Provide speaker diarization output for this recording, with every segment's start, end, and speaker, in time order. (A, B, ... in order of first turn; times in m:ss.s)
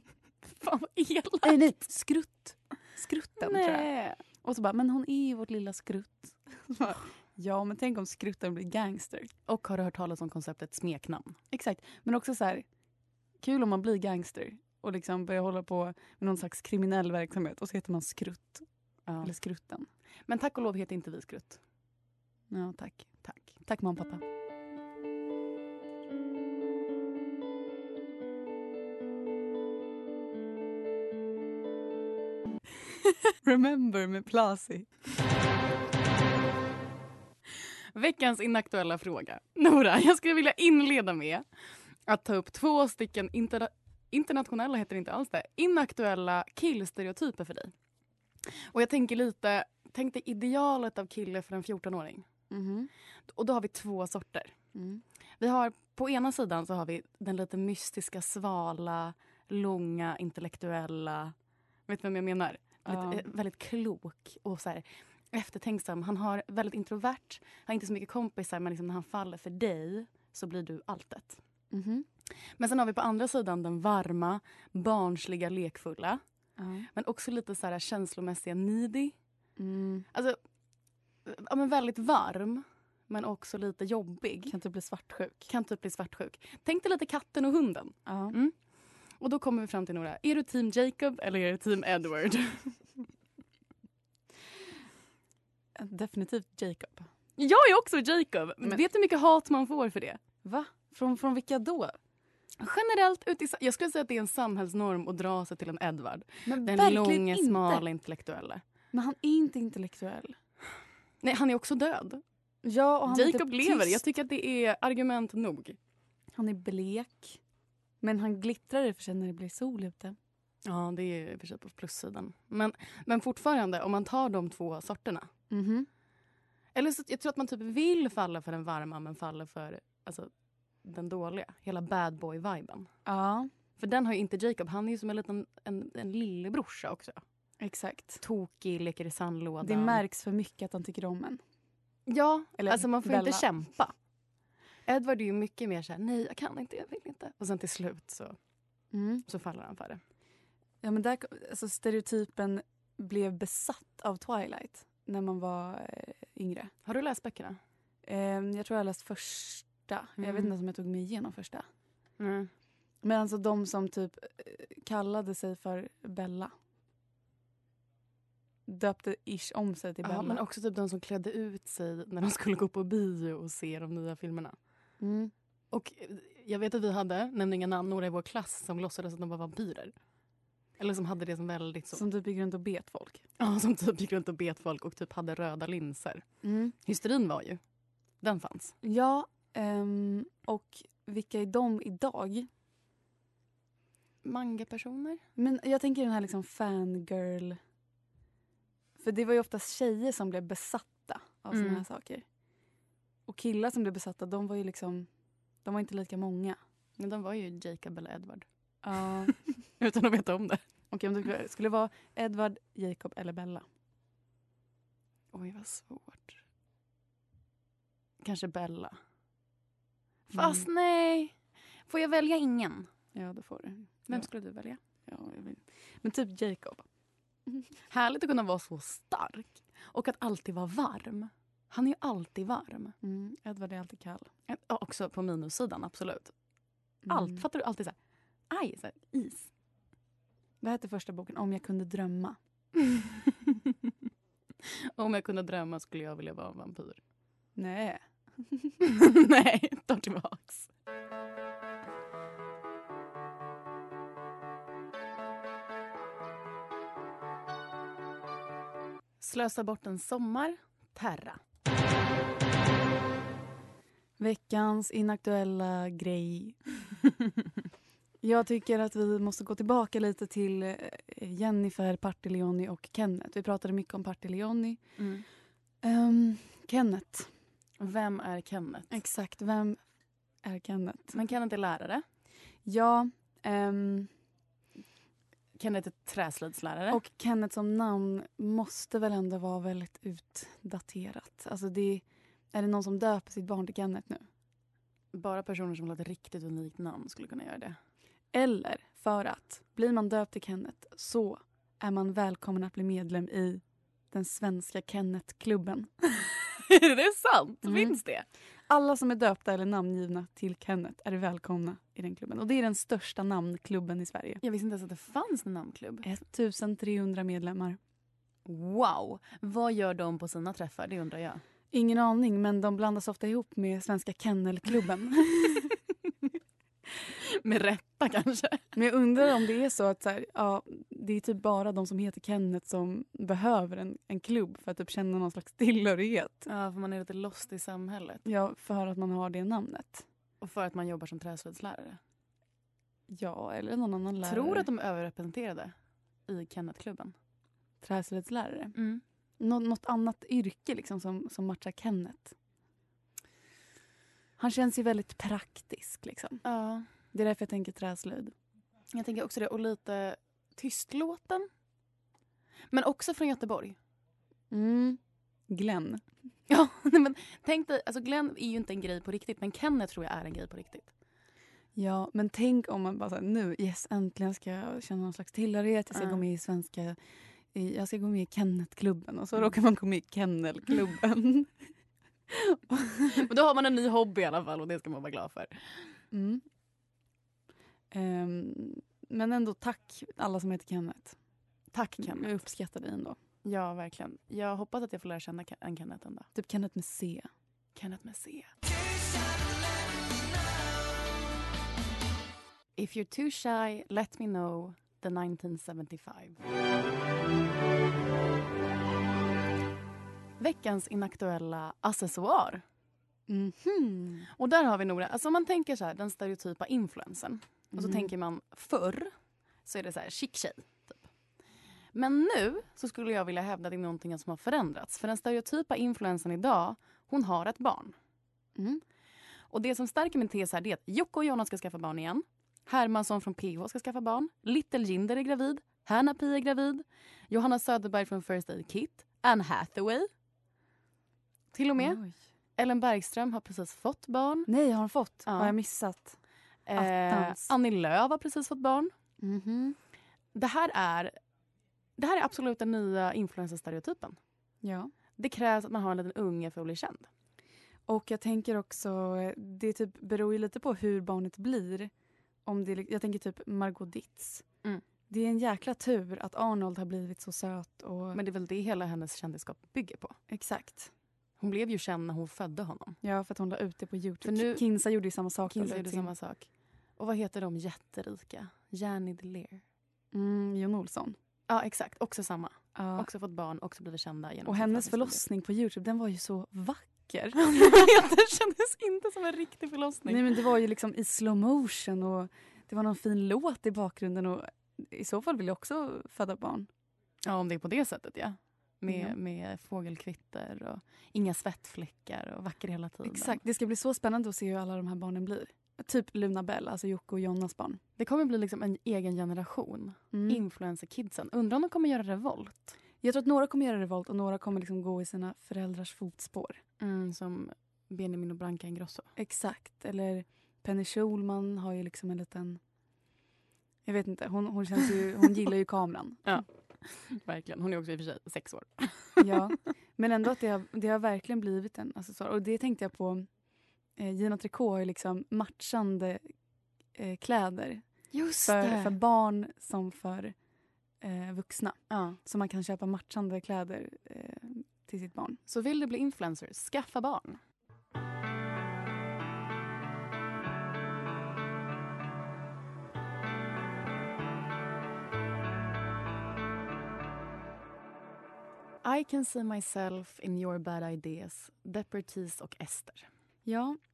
0:00.5-0:01.6 A
0:01.4-0:03.9 B
0:03.4-0:04.2 A
0:04.4-0:09.3 B
0:09.5-0:11.4 A
0:11.5-0:12.6 B
0:13.4-0:18.6 B
0:19.0-0:19.3 A
0:19.2-0:19.9 B
0:20.3-0:21.6 A
0:22.5-0:24.2 B
0:23.2-0:23.5 A
0:33.4-0:34.9 B
0:37.9-0:41.4 A
0:42.1-0:47.7 A
0:48.6-0:52.2 A
0:52.5-0:52.9 B
0:53.3-0:54.5 A
0:54.7-0:55.0 B
0:55.4-1:01.3 A
1:01.9-1:11.4 A
1:02.8-1:03.2 B
1:11.7-1:12.0 B
1:12.6-1:16.2 A
1:16.6-1:16.9 B
1:16.9-1:19.1 A
1:19.6-1:20.0 B
1:21.2-1:24.5 A
1:24.5-1:25.5 B
1:25.5-1:28.5 A
1:28.0-1:28.4 B
1:29.2-1:32.7 A
1:35.8-1:37.1 B
1:37.4-1:40.2 A
1:40.4-1:42.0 B
1:42.6-1:48.6 A
1:46.4-1:47.8 B
1:48.9-1:50.4 B
1:51.2-1:52.2 A
1:52.6-1:54.0 B
1:53.1-1:55.8 A
1:56.4-1:57.4 B
1:58.0-2:00.2 B
2:00.6-2:05.3 A
2:05.5-2:05.9 B
2:06.7-2:10.3 A
2:10.8-2:12.9 A
2:13.0-2:13.5 B
2:13.8-2:17.2 A
2:17.6-2:18.2 B
2:18.2-2:20.0 A
2:19.6-2:21.4 B
2:22.1-2:23.9 A
2:22.6-2:23.4 B
2:24.9-2:28.4 A
2:28.9-2:29.2 B
2:29.3-2:30.0 A
2:30.8-2:36.7 B
2:36.8-2:37.6 A
2:38.0-2:41.6 B
2:40.2-2:40.5 A
2:42.2-2:42.5 A
2:43.0-2:46.5 B
2:48.7-2:50.4 B
2:50.0-2:54.5 A
2:55.0-2:55.3 B
2:55.7-2:59.9 A
3:00.8-3:02.0 A
3:01.9-3:03.2 B
3:03.4-3:06.2 A
3:06.4-3:06.7 B
3:06.8-3:07.6 A
3:08.2-3:08.7 A
3:08.8-3:12.5 B
3:14.2-3:15.2 A
3:15.4-3:17.6 B
3:19.0-3:22.2 B
3:21.5-3:21.8 A
3:23.3-3:25.1 B
3:25.6-3:26.6 B
3:27.0-3:28.4 A
3:28.8-3:29.3 B
3:29.3-3:30.6 A
3:30.9-3:33.6 B
3:35.3-3:36.4 A
3:38.2-3:39.0 A
3:40.3-3:40.6 B
3:40.3-3:41.3 A
3:41.9-3:42.9 A
3:43.1-3:44.3 B
3:44.1-3:44.8 A
3:45.1-3:46.8 B
3:47.9-3:53.0 A
3:53.0-3:54.3 B
3:54.5-3:56.3 A
3:57.1-3:57.4 B
3:57.1-3:57.9 A
3:58.5-3:59.5 A
4:00.6-4:02.4 B
4:02.9-4:03.6 A
4:04.6-4:07.0 A
4:07.6-4:08.7 B
4:08.8-4:10.7 A
4:19.2-4:21.4 A
4:24.2-4:26.6 B
4:28.2-4:34.8 B
4:35.0-4:35.2 A
4:35.8-4:37.3 B
4:37.8-4:38.9 A
4:38.9-4:39.8 B
4:40.4-4:41.2 B
4:41.1-4:42.0 A
4:42.6-4:44.1 B
4:45.6-4:47.0 A
4:46.9-4:54.2 B
4:55.1-4:57.8 A
4:58.3-5:06.3 B
5:06.7-5:08.2 A
5:07.6-5:07.9 B
5:08.7-5:14.4 B
5:14.4-5:16.0 A
5:16.0-5:17.8 B
5:18.4-5:21.4 A
5:21.7-5:25.8 B
5:27.2-5:28.6 A
5:28.7-5:36.5 B
5:36.5-5:38.2 A
5:38.2-5:40.0 B
5:40.4-5:42.0 A
5:43.1-5:44.7 B
5:44.2-5:45.7 A
5:46.3-5:47.1 A
5:47.8-5:48.7 B
5:48.7-5:49.0 A
5:49.4-5:52.3 B
5:54.4-5:56.4 B
5:56.4-5:56.9 A
5:57.1-5:58.3 B
5:58.9-6:01.5 A
6:02.7-6:03.8 A
6:04.5-6:06.0 B
6:06.5-6:10.9 A
6:11.8-6:17.0 B
6:15.9-6:16.2 A
6:17.5-6:21.5 B
6:22.3-6:23.2 B
6:23.2-6:25.6 A
6:26.1-6:26.4 B
6:27.9-6:31.2 B
6:31.7-6:32.4 A
6:32.0-6:33.2 B
6:33.4-6:36.3 A
6:36.3-6:37.3 B
6:37.8-6:38.5 A
6:42.8-6:46.4 A
6:50.4-6:52.6 A
6:53.3-6:54.3 B
6:54.4-6:59.1 A
6:57.7-6:58.1 B
6:59.6-7:01.0 A
7:01.9-7:07.9 A
7:08.6-7:08.8 B
7:09.5-7:20.1 A
7:21.5-7:22.0 A
7:21.8-7:22.1 B
7:22.6-7:24.5 A
7:24.5-7:26.2 B
7:25.3-7:25.5 A
7:26.7-7:28.9 A
7:26.8-7:27.5 B
7:29.2-7:29.8 B
7:30.3-7:31.1 A
7:32.0-7:34.2 A
7:34.6-7:34.9 B
7:35.2-7:37.1 A
7:37.9-7:41.9 B
7:42.4-7:44.4 B
7:45.1-7:48.2 B
7:48.1-7:50.2 A
7:50.3-7:50.9 B
7:51.4-7:53.0 A
7:53.0-7:56.1 B
7:54.2-7:54.6 A
7:55.4-7:56.5 A
7:57.0-7:59.6 A
8:00.1-8:01.2 B
8:01.5-8:05.2 A
8:02.8-8:03.1 B
8:04.4-8:07.6 B
8:07.4-8:10.3 A
8:10.0-8:16.7 B
8:17.2-8:23.4 A
8:18.9-8:19.1 B
8:23.0-8:27.8 B
8:28.0-8:32.8 A
8:30.1-8:30.4 B
8:33.0-8:36.6 B
8:36.8-8:39.1 A
8:39.2-8:42.6 B
8:43.8-8:46.4 B
8:46.2-8:49.3 A
8:49.2-8:53.3 B
8:54.0-8:56.2 B
8:57.0-8:57.8 B
8:58.1-8:59.0 A
8:58.4-9:00.3 B
9:01.0-9:05.4 B
9:01.9-9:02.2 A
9:05.5-9:07.4 A
9:18.8-9:23.1 A
9:23.4-9:23.8 B